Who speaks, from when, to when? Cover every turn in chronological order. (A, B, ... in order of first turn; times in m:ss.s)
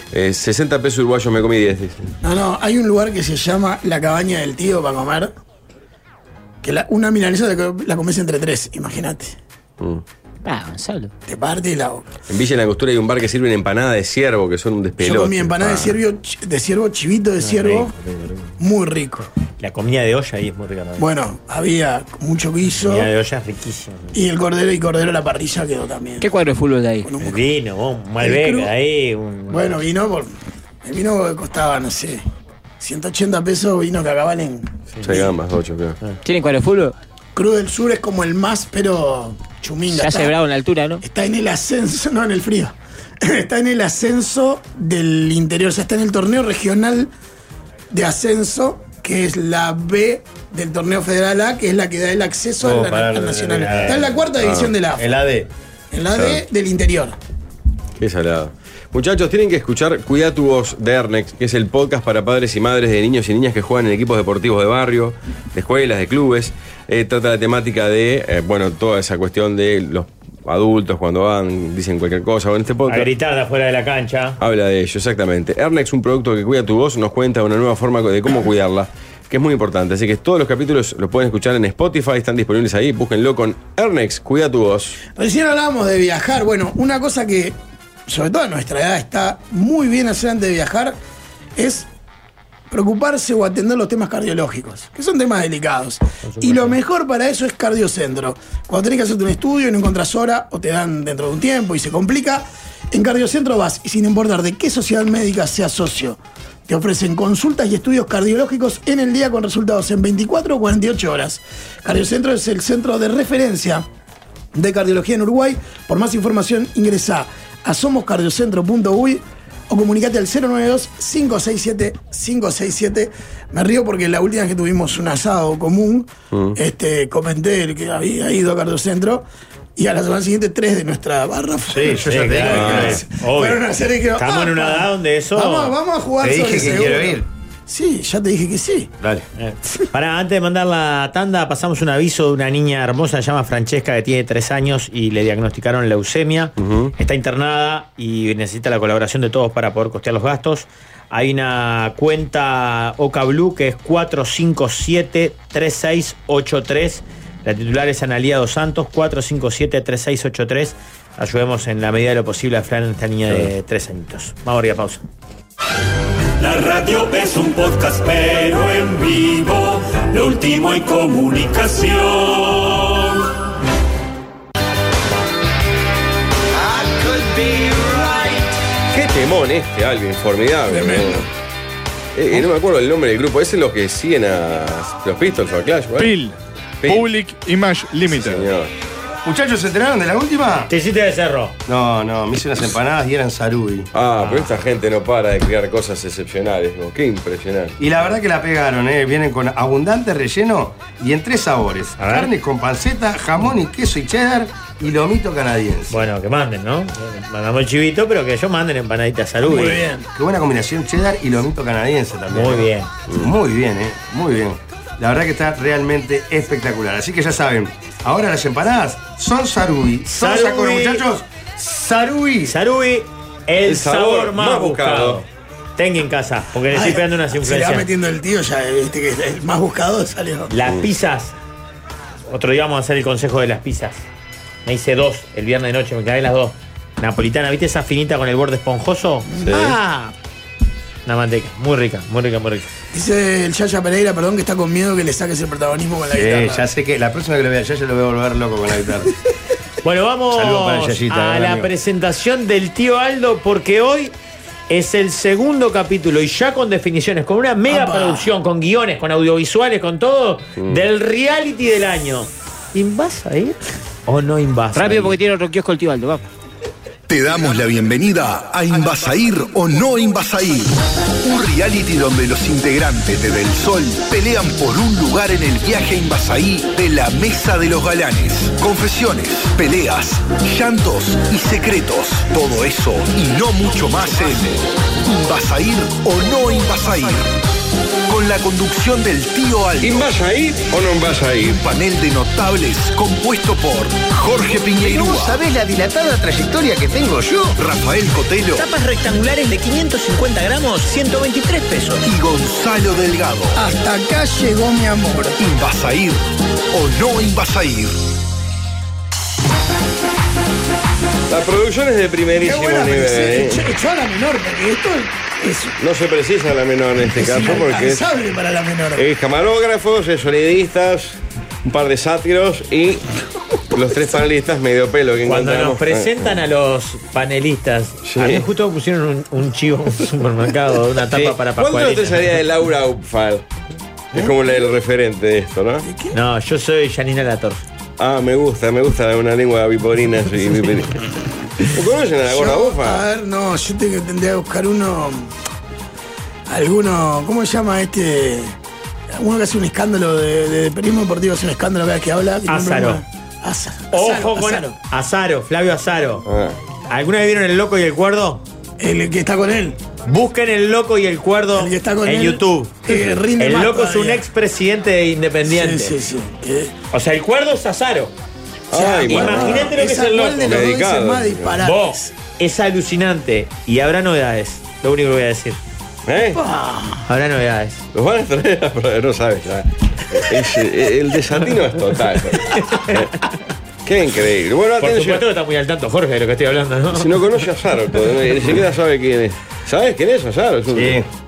0:00.1-0:02.1 A
0:02.2-0:05.3 B
0:06.6-0:09.4 B
0:10.4-0:11.1 C
0:11.3-0:12.1 B
0:12.3-0:16.0 A
0:15.0-0:17.9 B
0:17.4-0:18.5 D
0:18.6-0:19.3 B
0:19.6-0:21.0 D
0:21.0-0:23.1 B
0:22.7-0:24.1 D
0:24.1-0:26.2 B
0:26.2-0:27.1 C
0:27.0-0:27.4 B
0:27.2-0:29.8 D
0:28.2-0:28.7 B
0:29.5-0:32.2 B
0:32.8-0:35.2 B
0:35.0-0:36.0 A
0:36.2-0:36.9 C
0:37.3-0:40.3 B
0:39.9-0:41.0 C
0:41.0-0:47.1 B
0:47.9-0:55.1 B
0:52.6-0:54.3 E
0:53.7-0:54.0 D
0:54.4-0:54.7 A
0:55.0-0:55.5 E
0:55.9-0:57.2 B
0:56.2-0:56.4 A
0:58.0-1:13.1 A
1:12.9-1:14.4 D
1:14.4-1:25.0 A
1:25.1-1:31.0 B
1:31.6-1:31.9 B
1:32.7-1:53.8 B
1:36.2-1:36.8 D
1:54.5-2:18.9 B
2:06.3-2:06.6 A
2:11.7-2:13.0 E
2:12.0-2:13.6 D
2:12.6-2:13.0 A
2:14.2-2:15.7 D
2:16.2-2:17.2 E
2:19.0-2:19.3 E
2:19.4-2:45.0 D
2:26.6-2:26.9 A
2:46.4-2:53.2 F
2:58.9-3:01.3 A
3:00.7-3:01.2 B
3:02.1-3:06.1 A
3:05.9-3:08.5 G
3:06.8-3:07.1 A
3:08.1-3:08.7 A
3:09.2-3:10.7 E
3:10.7-3:11.6 D
3:11.6-3:13.9 E
3:13.9-3:17.8 A
3:14.2-3:14.5 D
3:17.8-3:26.0 E
3:22.0-3:22.3 D
3:25.9-3:29.8 D
3:29.4-3:30.1 B
3:30.1-3:42.5 E
3:32.3-3:32.9 D
3:40.1-3:41.0 D
3:42.4-3:45.2 D
3:43.6-3:45.2 A
3:45.8-3:47.9 D
3:46.7-3:50.5 B
3:50.5-3:51.4 D
3:52.3-3:54.0 D
3:54.6-4:00.1 D
3:59.4-3:59.8 A
4:01.0-4:02.7 D
4:02.9-4:06.7 B
4:06.1-4:09.1 E
4:09.8-4:14.1 D
4:10.3-4:11.7 E
4:14.7-4:25.1 D
4:17.7-4:18.3 B
4:24.7-4:26.3 C
4:27.1-4:47.3 H
4:48.1-4:50.1 H
4:49.8-4:51.6 A
4:51.5-4:55.4 H
4:54.9-4:57.5 E
4:57.5-4:58.7 H
4:58.6-5:02.0 I
5:02.0-5:03.6 H
5:03.5-5:05.4 B
5:05.4-5:08.0 H
5:11.3-5:13.6 A
5:12.4-5:15.8 B
5:15.8-5:18.1 A
5:17.1-5:19.0 B
5:19.0-5:23.0 A
5:23.7-5:26.3 A
5:25.2-5:32.4 D
5:28.0-5:28.4 A
5:31.1-5:33.4 A
5:34.1-5:35.8 A
5:35.8-5:36.2 B
5:36.1-5:37.6 D
5:38.0-5:40.9 A
5:41.6-5:43.0 A
5:42.2-5:45.3 B
5:46.5-5:48.6 B
5:49.1-5:54.7 B
5:52.5-5:53.0 D
5:53.9-5:56.2 D
5:56.3-5:56.6 A
5:56.9-5:58.4 D
5:58.8-5:59.8 B
6:00.0-6:05.9 D
6:01.6-6:04.2 B
6:05.4-6:06.7 B
6:06.9-6:08.1 D
6:08.7-6:09.8 A
6:08.7-6:12.1 B
6:09.1-6:10.5 D
6:10.4-6:11.6 A
6:11.6-6:15.6 D
6:16.0-6:16.4 A
6:16.3-6:17.0 B
6:17.0-6:17.8 D
6:17.9-6:23.1 A
6:22.5-6:23.1 D
6:23.8-6:25.2 A
6:24.8-6:27.2 D
6:26.9-6:31.0 A
6:30.7-6:31.1 E